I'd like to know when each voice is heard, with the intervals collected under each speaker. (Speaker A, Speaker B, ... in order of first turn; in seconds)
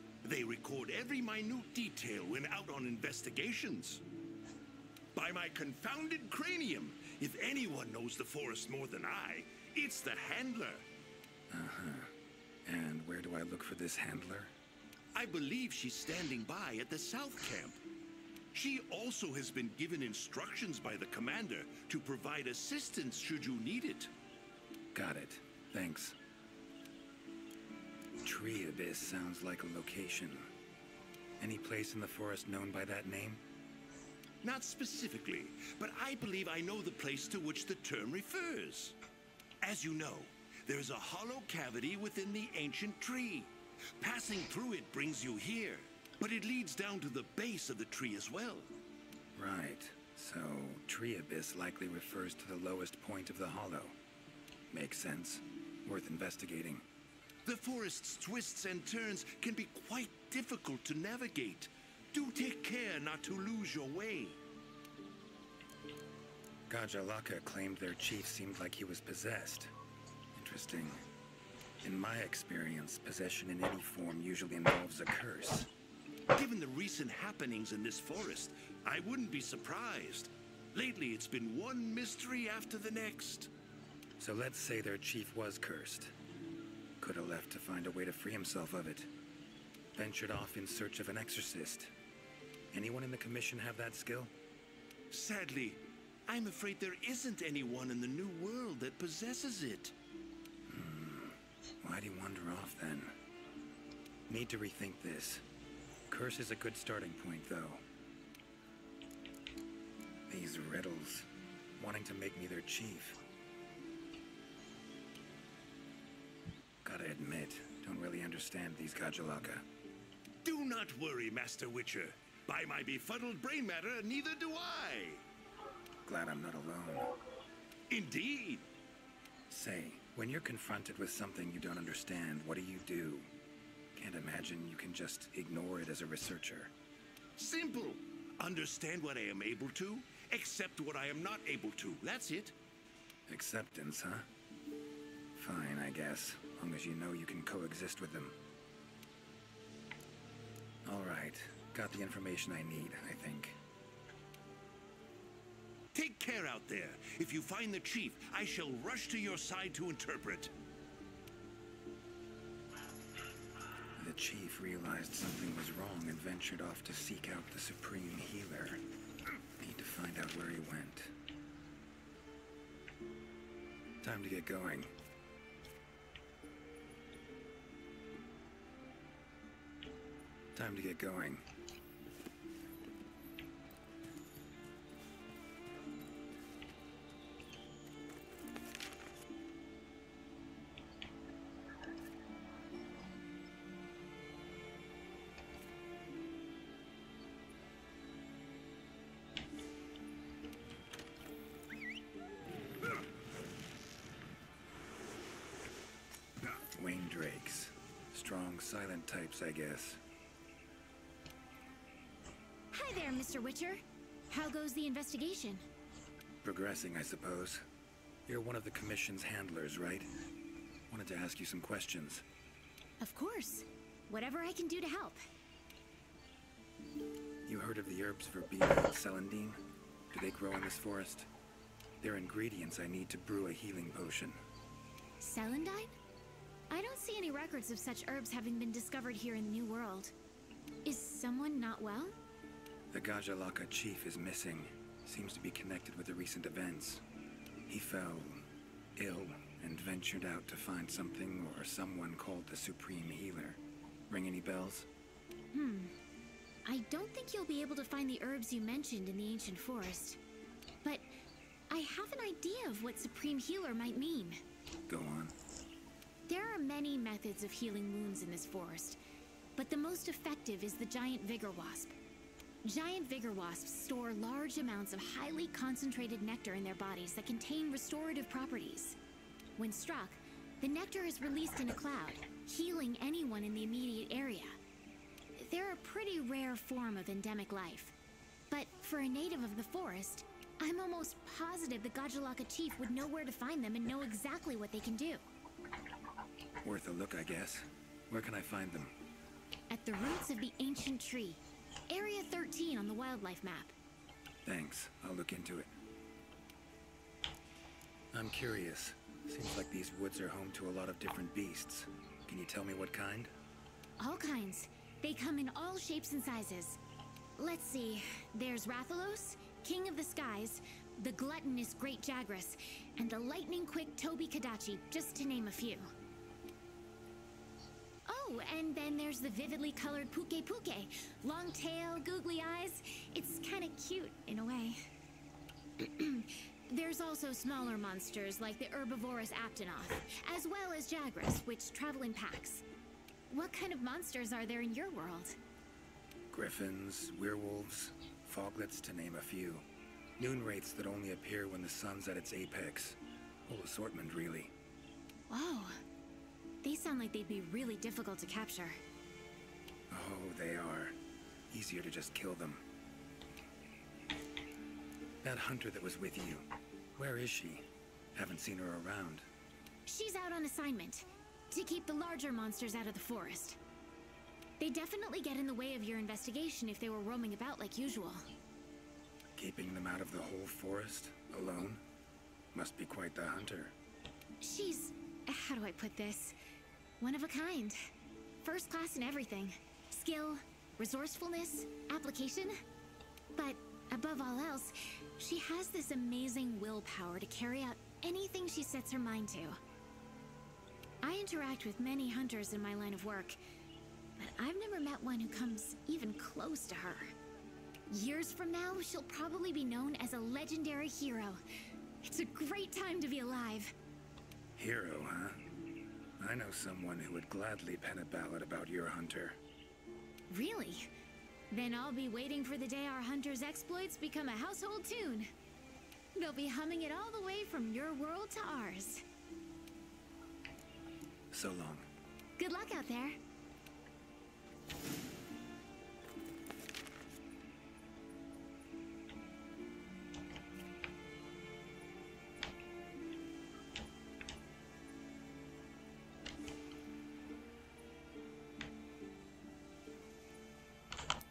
Speaker A: 0.2-4.0, 5.1-10.8, 15.1-17.8, 18.5-24.1, 34.4-39.0, 39.6-48.7, 57.5-64.4, 76.3-83.5, 95.1-99.9, 120.4-125.2, 127.9-128.7, 137.4-142.6, 155.9-160.5
Speaker B: 11.5-12.1, 12.7-14.5, 24.9-26.2, 28.2-30.5, 31.4-33.4, 49.4-54.0, 54.7-56.9, 66.7-69.7, 70.3-71.0, 71.8-75.7, 84.2-86.1, 87.0-89.1, 90.0-91.9, 92.7-94.3, 100.7-103.2, 104.3-105.5, 106.1-107.8, 110.3-113.2, 116.8-119.7, 126.0-127.1, 129.5-133.3, 133.9-136.7, 143.3-144.3, 145.3-148.4, 150.8-153.6, 164.0-168.8, 169.6-171.1, 174.0-174.9, 180.5-181.5, 206.7-210.0, 216.4-217.7, 218.3-220.1, 220.9-222.2, 227.5-231.3, 232.0-234.4, 242.9-247.0, 247.7-248.4, 249.0-254.9, 264.9-265.4, 296.6-298.9, 304.4-305.7, 308.1-313.3, 346.3-349.6, 350.2-354.5, 359.9-361.0, 361.5-362.6, 365.2-369.3, 379.4-381.8, 382.5-383.8, 414.6-415.4, 416.2-419.4, 431.3-431.9
Speaker C: 212.7-215.6, 223.0-225.2, 235.2-235.9, 236.7-240.1, 240.8-242.2, 255.5-255.9, 256.6-260.2, 260.8-261.1, 261.7-264.4, 266.3-269.0, 269.6-271.9, 272.6-279.0, 279.6-284.6, 285.4-287.9, 288.5-295.2, 299.7-303.8, 314.0-316.8, 317.4-325.9, 328.1-334.8, 335.8-342.6, 343.3-345.4, 355.3-355.8, 356.6-358.8, 369.9-373.6, 374.6-378.2, 384.4-386.4, 387.0-387.8, 388.4-392.5, 393.4-399.6, 401.0-403.4, 404.2-407.1, 407.9-411.4, 412.0-413.7, 420.3-420.9, 421.5-425.3, 426.1-429.0, 432.4-433.2